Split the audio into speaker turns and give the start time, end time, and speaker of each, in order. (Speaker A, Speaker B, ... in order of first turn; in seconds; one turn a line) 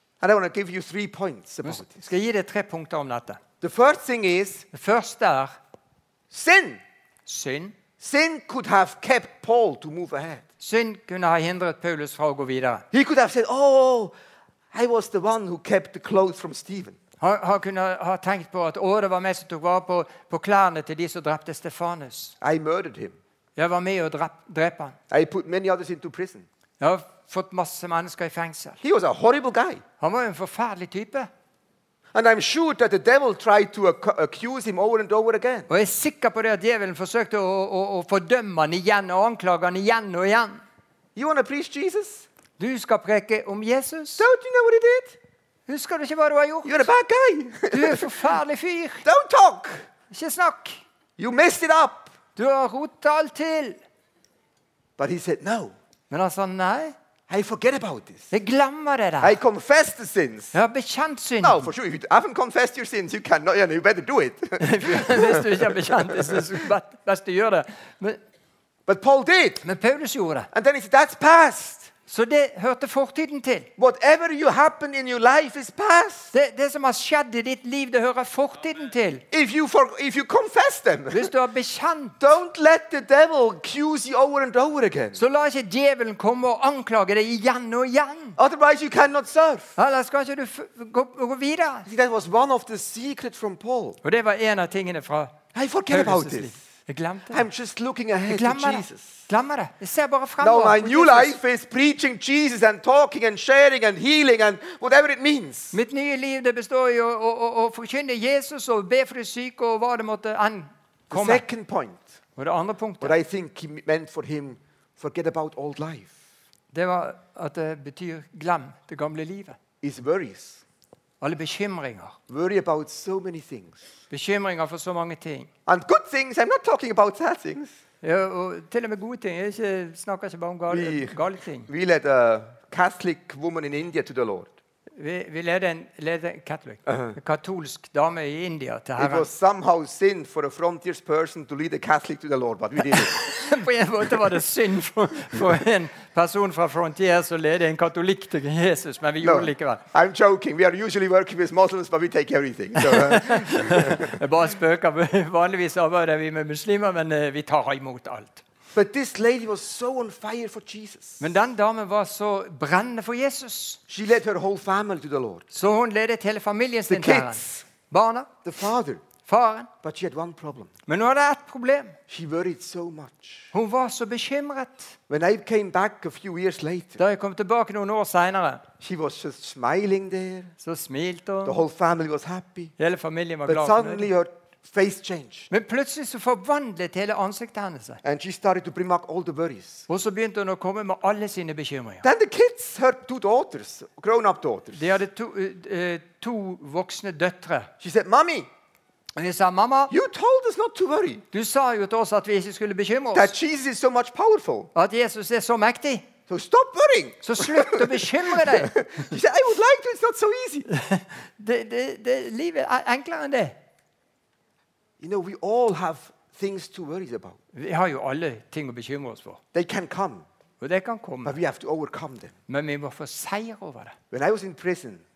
Speaker A: 0.2-2.1
Speaker B: 1.6-3.4
Speaker A: 3.6-4.7
Speaker B: 4.7-5.5
Speaker A: 6.3-6.8
Speaker B: 7.3-7.8
Speaker A: 8.0-10.4
Speaker B: 10.6-12.8
Speaker A: 12.9-14.1
Speaker A: 14.7-17.0
Speaker B: 17.2-22.4
Speaker A: 22.4-23.2
Speaker B: 23.6-25.0
Speaker A: 25.1-26.5
Speaker B: 26.8-28.8
Speaker A: 28.8-29.8
Speaker B: 30.0-31.3
Speaker A: 32.1-35.7
Speaker B: 35.7-40.6
Speaker A: 41.2-42.3
Speaker B: 42.6-44.3
Speaker A: 44.2-45.2
Speaker B: 45.7-46.9
Speaker A: 46.6-48.1
Speaker B: 47.7-49.0
Speaker A: 49.0-49.9
Speaker B: 50.1-50.8
Speaker A: 51.2-52.1
Speaker B: 52.4-53.8
Speaker A: 55.0-55.8
Speaker B: 56.1-57.0
Speaker A: 57.3-58.3
Speaker B: 58.3-59.4
Speaker A: 59.2-60.5
Speaker B: 60.5-61.7
Speaker A: 61.4-66.5
Speaker B: 64.6-68.2
Speaker A: 68.9-69.7
Speaker B: 69.6-70.5
Speaker A: 70.5-71.9
Speaker B: 72.1-73.7
Speaker A: 73.8-76.3
Speaker B: 76.3-79.2
Speaker A: 79.3-81.3
Speaker B: 81.1-82.2
Speaker A: 82.2-85.2
Speaker B: 85.2-88.4
Speaker A: 88.4-89.8
Speaker B: 89.8-91.9
Speaker A: 91.9-94.0
Speaker B: 94.0-97.5
Speaker A: 95.5-96.6
Speaker A: 97.3-99.3
Speaker B: 98.3-101.4
Speaker A: 100.4-105.8
Speaker B: 105.7-111.4
Speaker A: 111.1-112.0
Speaker B: 112.4-113.2
Speaker A: 113.0-116.2
Speaker B: 116.7-119.6
Speaker A: 119.8-120.6
Speaker B: 121.2-122.2
Speaker A: 122.3-123.8
Speaker B: 124.1-125.5
Speaker A: 125.7-127.7
Speaker B: 128.0-131.7
Speaker A: 130.7-134.5
Speaker B: 135.0-139.3
Speaker A: 136.9-137.2
Speaker A: 139.0-143.2
Speaker B: 142.9-149.8
Speaker A: 149.2-154.2
Speaker B: 152.8-158.4
Speaker A: 158.7-161.3
Speaker B: 161.2-163.8
Speaker A: 163.9-165.5
Speaker B: 165.5-168.3
Speaker A: 166.9-167.7
Speaker A: 168.4-169.0
Speaker B: 169.2-169.7
Speaker A: 169.8-170.7
Speaker B: 170.9-172.0
Speaker A: 172.1-173.5
Speaker B: 173.5-175.0
Speaker A: 175.1-177.0
Speaker B: 177.0-178.6
Speaker A: 178.8-180.5
Speaker B: 180.6-181.6
Speaker A: 181.4-182.7
Speaker B: 182.8-184.1
Speaker A: 183.5-185.5
Speaker B: 185.5-188.0
Speaker A: 188.0-189.9
Speaker B: 189.9-192.1
Speaker A: 192.0-195.0
Speaker B: 194.8-197.7
Speaker A: 197.8-198.5
Speaker B: 199.2-199.9
Speaker A: 199.9-201.2
Speaker B: 201.3-203.3
Speaker A: 203.1-204.7
Speaker B: 204.8-206.1
Speaker A: 206.3-210.7
Speaker B: 207.2-208.8
Speaker B: 210.7-213.6
Speaker A: 215.0-217.4
Speaker B: 217.5-219.4
Speaker A: 219.5-220.3
Speaker B: 220.6-221.4
Speaker A: 221.2-222.3
Speaker B: 222.5-224.0
Speaker A: 224.1-225.0